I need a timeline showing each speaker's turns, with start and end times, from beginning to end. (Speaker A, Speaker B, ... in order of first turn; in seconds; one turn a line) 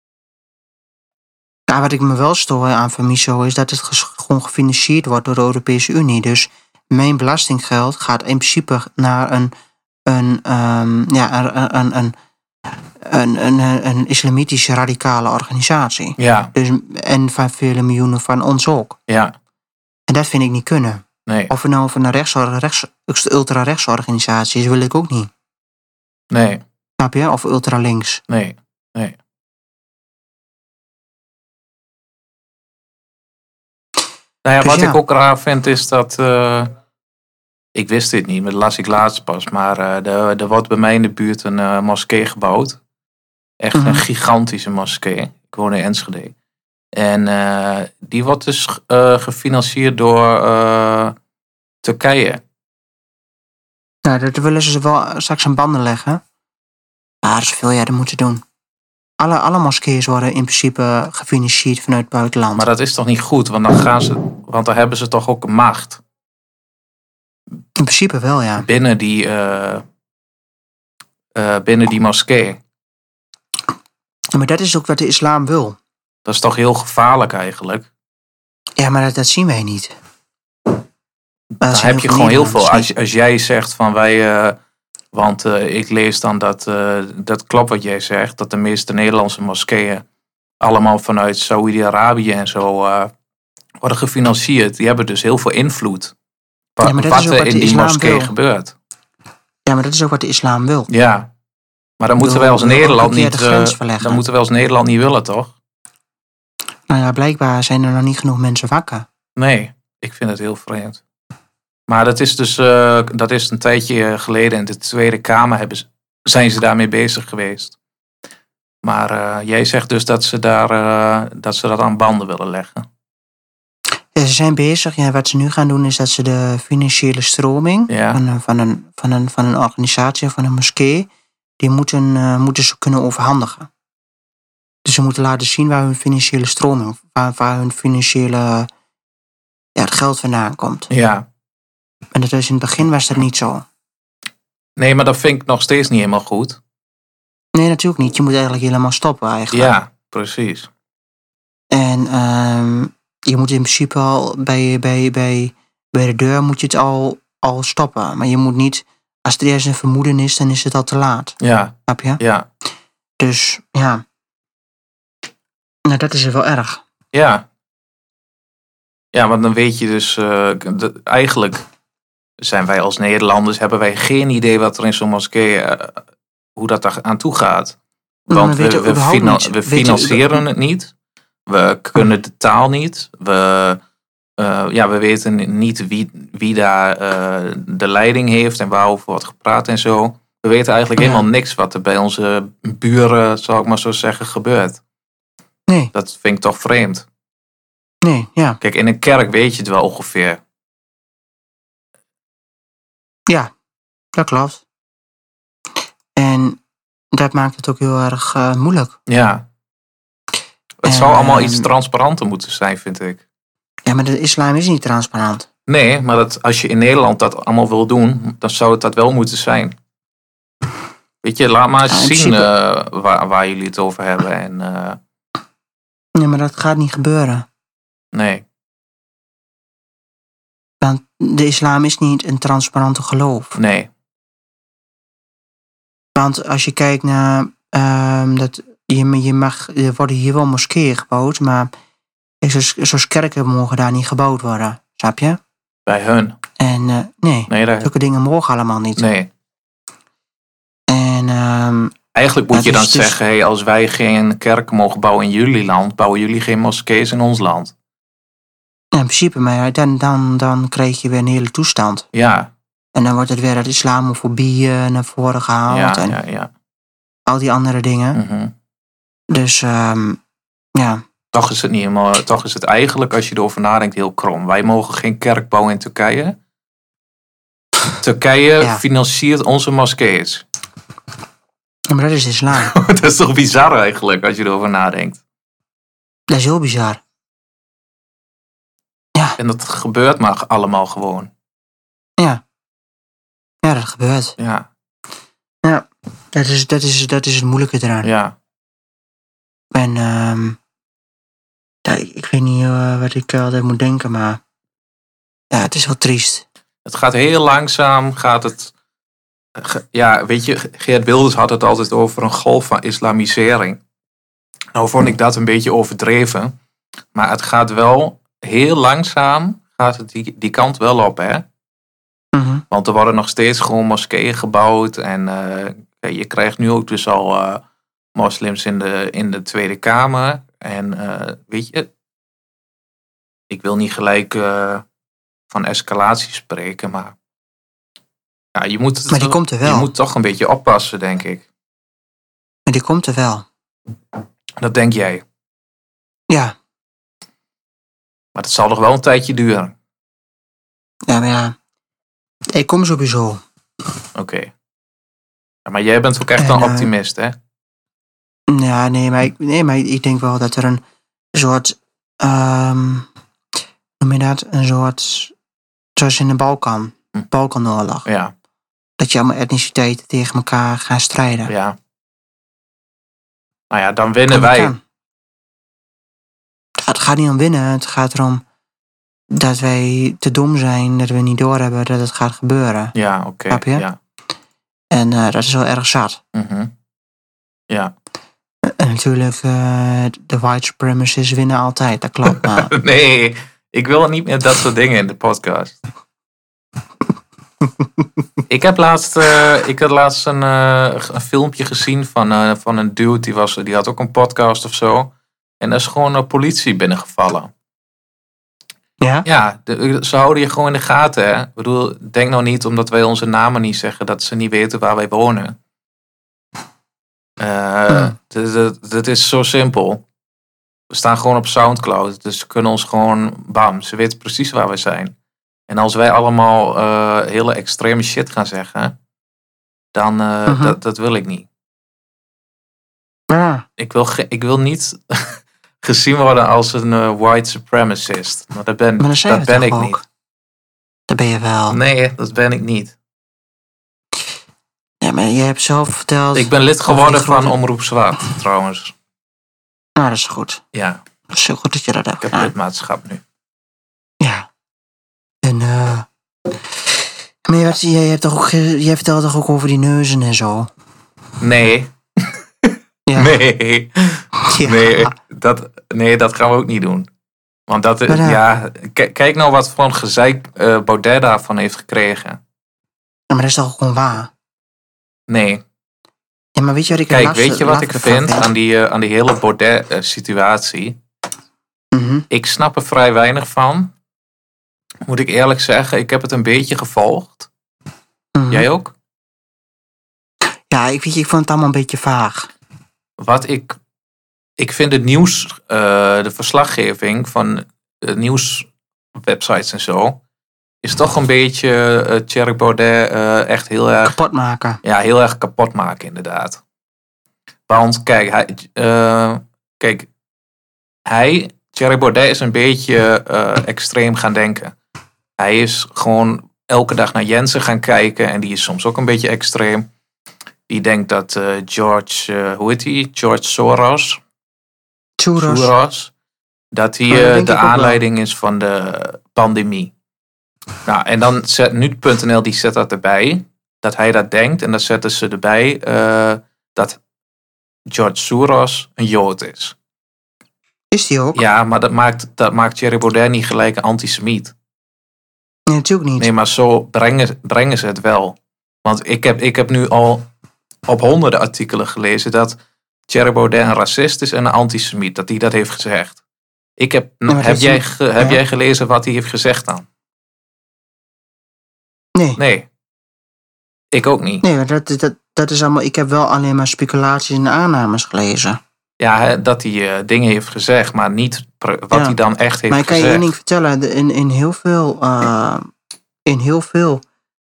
Speaker A: 1.7-9.5
Speaker A: 10.1-12.1
Speaker A: 13.0-19.0
Speaker B: 16.2-16.5
Speaker B: 19.1-19.3
Speaker A: 20.1-25.3
Speaker B: 21.3-21.5
Speaker B: 26.3-26.6
Speaker A: 27.0-28.2
Speaker B: 28.3-29.2
Speaker B: 34.4-36.7
Speaker A: 34.6-35.0
Speaker B: 37.7-42.8
Speaker B: 43.6-46.3
Speaker A: 43.7-44.0
Speaker B: 46.9-51.1
Speaker B: 51.8-52.4
Speaker A: 54.0-56.2
Speaker A: 57.2-58.4
Speaker A: 59.2-62.6
Speaker B: 62.5-66.0
Speaker A: 67.8-68.7
Speaker B: 68.6-69.8
Speaker B: 71.3-72.6
Speaker A: 74.3-75.8
Speaker B: 76.2-77.9
Speaker A: 78.8-79.9
Speaker A: 81.6-82.9
Speaker B: 81.6-84.6
Speaker B: 85.1-90.0
Speaker B: 90.6-93.1
Speaker B: 93.8-96.1
Speaker B: 96.8-98.7
Speaker A: 96.8-98.3
Speaker A: 99.7-100.9
Speaker B: 100.9-101.3
Speaker B: 102.0-105.5
Speaker A: 102.2-104.2
Speaker A: 106.9-109.1
Speaker B: 109.3-111.0
Speaker B: 111.9-117.8
Speaker B: 118.8-122.9
Speaker A: 124.1-131.1
Speaker B: 127.9-128.2
Speaker A: 131.6-133.7
Speaker A: 134.8-138.7
Speaker A: 139.8-140.9
Speaker B: 140.9-141.3
Speaker A: 142.1-143.7
Speaker B: 144.8-146.6
Speaker A: 147.5-149.7
Speaker B: 149.5-150.7
Speaker A: 151.7-162.2
Speaker B: 161.4-162.5
Speaker A: 163.2-164.0
Speaker A: 165.8-166.8
Speaker B: 167.1-167.4
Speaker B: 169.1-171.6
Speaker B: 172.4-176.0
Speaker B: 176.6-177.8
Speaker A: 178.3-180.4
Speaker B: 178.3-180.9
Speaker B: 181.5-183.8
Speaker B: 184.4-194.8
Speaker A: 191.0-191.2
Speaker B: 195.9-197.1
Speaker A: 198.0-198.6
Speaker B: 198.6-200.4
Speaker A: 204.1-204.6
Speaker A: 206.2-206.6
Speaker A: 207.1-209.0
Speaker B: 209.1-209.5
Speaker B: 210.8-213.2
Speaker A: 210.8-211.7
Speaker A: 213.8-215.5
Speaker B: 215.7-219.8
Speaker B: 221.2-225.0
Speaker A: 221.9-222.5
Speaker A: 226.1-227.5
Speaker B: 228.1-228.4
Speaker A: 230.8-233.6
Speaker B: 233.6-233.9
Speaker A: 236.2-241.7
Speaker A: 242.4-245.4
Speaker B: 245.8-246.4
Speaker A: 246.6-249.0
Speaker B: 247.5-247.9
Speaker B: 249.0-249.3
Speaker A: 250.9-251.9
Speaker B: 252.1-257.7
Speaker A: 252.5-253.2
Speaker A: 258.9-262.1
Speaker B: 262.1-262.5
Speaker A: 262.9-266.2
Speaker B: 265.7-266.5
Speaker A: 267.3-268.2
Speaker B: 268.1-268.5
Speaker A: 269.3-270.2
Speaker A: 270.7-271.0
Speaker B: 271.3-276.4
Speaker B: 278.0-280.4
Speaker A: 281.9-282.7
Speaker B: 282.6-285.2
Speaker A: 286.3-287.0
Speaker B: 289.4-291.3
Speaker A: 293.6-294.4
Speaker B: 294.4-294.7
Speaker A: 295.6-298.1
Speaker B: 298.0-298.3
Speaker A: 299.7-300.6
Speaker A: 301.8-304.4
Speaker A: 305.5-306.4
Speaker B: 306.8-308.7
Speaker B: 309.6-313.8
Speaker B: 314.7-316.5
Speaker B: 317.1-321.4
Speaker A: 322.3-322.6
Speaker B: 322.7-327.6
Speaker B: 328.1-331.9
Speaker B: 333.5-334.8
Speaker B: 335.5-337.1
Speaker B: 338.5-341.4
Speaker A: 339.1-339.9
Speaker A: 342.7-343.4
Speaker B: 344.6-345.2
Speaker A: 346.3-346.5
Speaker B: 348.3-349.7
Speaker A: 351.1-351.6
Speaker A: 352.5-353.4
Speaker B: 354.1-354.5
Speaker B: 355.6-357.4
Speaker A: 356.4-356.9
Speaker A: 358.5-360.8
Speaker A: 361.3-363.1
Speaker A: 364.0-365.3
Speaker A: 365.9-368.1
Speaker B: 368.0-368.3
Speaker A: 369.0-371.5
Speaker B: 371.5-371.8
Speaker B: 373.7-374.7
Speaker A: 374.3-374.8
Speaker A: 376.8-378.4
Speaker A: 379.3-382.9
Speaker B: 382.9-384.0
Speaker A: 383.5-383.8
Speaker A: 384.9-386.2
Speaker B: 386.3-386.7
Speaker A: 388.6-392.7
Speaker B: 392.2-395.8
Speaker B: 398.5-407.5
Speaker A: 409.0-409.2
Speaker B: 409.2-415.6
Speaker B: 417.4-420.0
Speaker A: 417.9-418.1
Speaker B: 420.9-425.1
Speaker B: 425.7-429.0
Speaker B: 429.9-431.5
Speaker A: 430.4-430.8
Speaker A: 433.3-433.6
Speaker B: 433.8-440.0
Speaker A: 439.0-440.0
Speaker A: 441.1-441.8
Speaker B: 441.7-442.9
Speaker A: 445.0-447.6
Speaker B: 446.3-448.9
Speaker A: 450.0-450.6
Speaker B: 450.7-451.0
Speaker A: 451.3-452.5
Speaker B: 452.2-453.2
Speaker A: 454.2-454.5
Speaker A: 455.4-456.1
Speaker A: 457.4-460.7
Speaker B: 461.4-467.1
Speaker A: 463.1-463.4
Speaker A: 464.4-465.1
Speaker B: 467.7-472.4
Speaker A: 468.1-468.4
Speaker A: 473.3-474.3
Speaker B: 475.3-475.6
Speaker A: 476.6-478.5
Speaker B: 477.1-481.0
Speaker A: 481.9-482.2
Speaker B: 482.3-483.9
Speaker B: 485.1-487.5
Speaker A: 488.4-488.6
Speaker B: 488.5-488.9
Speaker A: 490.7-492.5
Speaker B: 493.2-493.8
Speaker B: 494.6-500.2
Speaker B: 500.8-504.1
Speaker A: 504.0-504.8
Speaker B: 504.8-506.6
Speaker B: 507.7-510.1
Speaker B: 511.1-514.7
Speaker B: 515.4-519.9
Speaker B: 520.7-524.2
Speaker A: 525.2-525.7
Speaker B: 525.4-526.1
Speaker B: 526.7-529.9
Speaker A: 527.1-528.0
Speaker B: 530.9-537.0
Speaker B: 537.9-539.8
Speaker A: 540.9-541.4
Speaker B: 541.3-544.5
Speaker A: 545.7-546.3
Speaker B: 546.2-550.3
Speaker B: 550.9-556.2
Speaker B: 556.8-559.9
Speaker A: 557.3-558.4
Speaker B: 562.4-562.7
Speaker B: 563.9-564.4
Speaker A: 564.4-568.6
Speaker B: 569.0-573.2
Speaker A: 571.9-572.2
Speaker A: 572.7-575.7
Speaker A: 576.2-577.0